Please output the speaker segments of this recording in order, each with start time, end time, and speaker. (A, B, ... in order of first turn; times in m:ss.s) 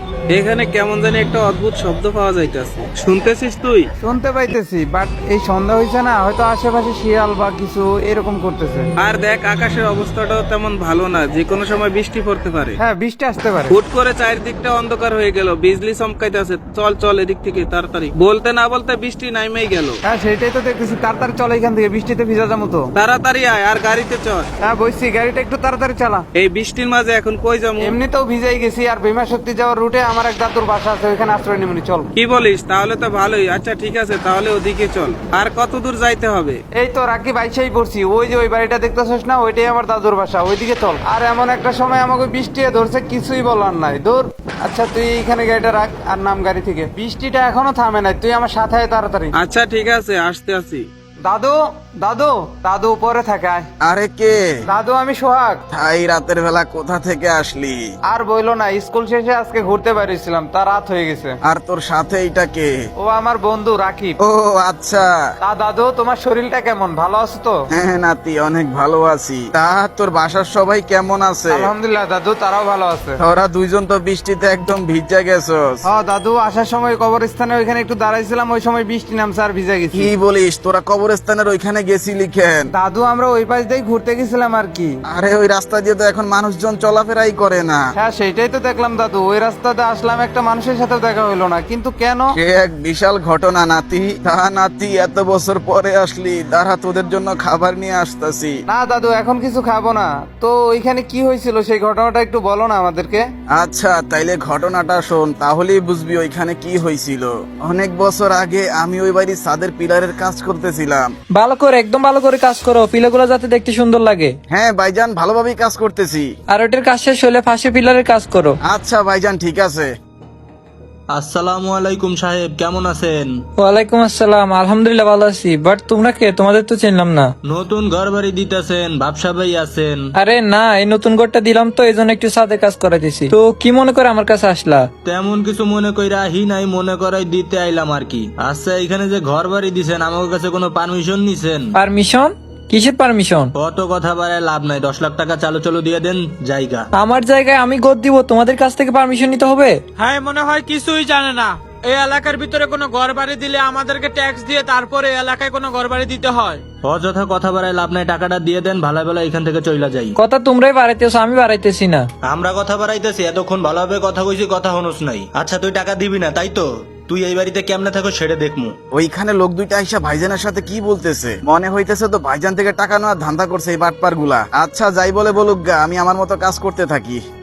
0:00.3-0:03.9 A
0:04.0-0:08.9 B
0:09.0-0:12.8 A
0:12.8-0:13.8 B
0:13.7-0:20.0 A
0:20.0-0:22.9 B
0:22.9-0:24.5 A
0:24.6-0:26.2 B
0:26.3-0:28.0 A
0:27.8-0:32.1 B
0:32.1-0:36.6 A
0:36.8-0:49.3 B
0:49.3-0:50.9 A
0:51.2-0:53.7 B
0:53.8-0:54.4 C
0:54.7-0:55.6 B
0:55.7-0:57.9 C
0:58.0-1:01.4 B
1:01.4-1:02.9 C
1:03.0-1:04.2 B
1:04.2-1:05.1 C
1:05.4-1:07.6 B
1:07.7-1:11.7 C
1:11.5-1:13.2 B
1:13.2-1:15.8 C
1:15.8-1:20.1 B
1:19.9-1:22.7 C
1:22.7-1:25.0 B
1:25.0-1:27.8 C
1:27.9-1:32.3 B
1:32.4-1:38.6 C
1:38.7-1:43.2 B
1:43.5-1:51.1 C
1:51.3-1:54.3 D
1:54.5-1:56.3 C
1:56.5-1:58.6 D
1:58.7-1:59.9 C
2:01.1-2:03.3 E
2:03.6-2:07.3 D
2:07.4-2:10.0 E
2:10.2-2:14.9 D
2:15.0-2:21.7 E
2:21.8-2:23.5 D
2:23.5-2:26.9 E
2:26.9-2:29.8 D
2:30.0-2:36.6 F
2:36.8-2:40.2 E
2:40.2-2:42.0 D
2:42.2-2:48.7 E
2:48.9-2:57.2 C